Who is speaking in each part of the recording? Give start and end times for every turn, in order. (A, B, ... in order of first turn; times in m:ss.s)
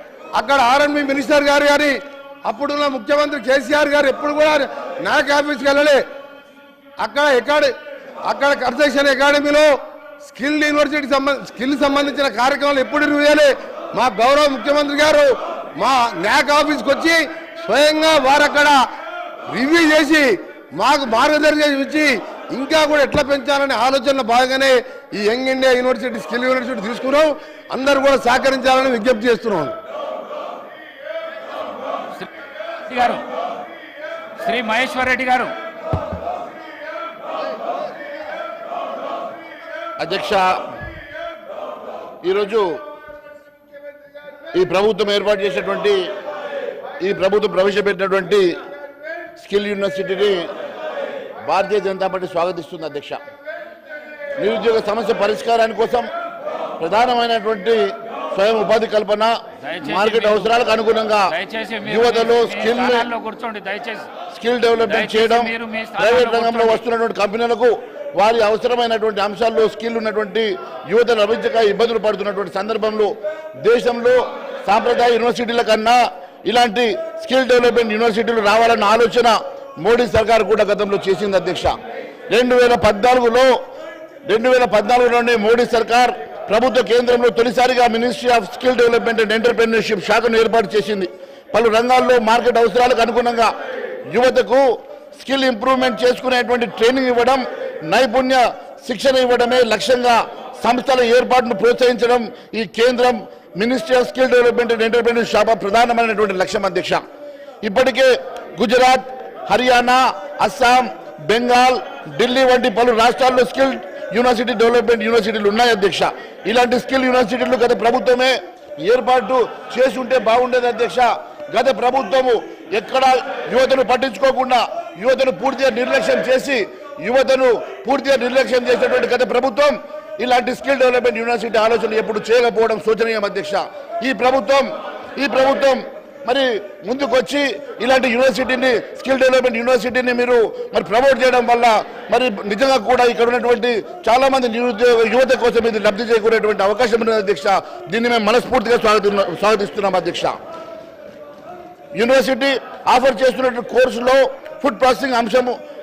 0:00.4-0:06.0 A
0:07.0-0:07.7 A
0:08.2-0:09.7 A
0:10.2-0:18.8 A
0:19.5-0:29.8 A
0:32.9-0:33.2 B
0:34.4-0:35.5 B
0:40.0-0:40.5 C
0:42.2-0:42.8 C
0:44.5-0:46.1 C
0:47.0-0:48.6 C
0:49.4-0:50.4 C
0:51.5-0:53.2 C
0:54.4-0:56.1 C
0:56.8-1:01.3 C
0:59.6-1:00.5 B
1:01.3-1:04.1 B
1:01.8-1:03.1 C
1:04.3-1:21.7 C
1:04.8-1:06.8 B
1:22.3-1:23.5 C
1:24.2-1:33.5 C
1:34.1-1:47.0 C
1:47.6-2:30.3 C
2:32.0-2:35.5 C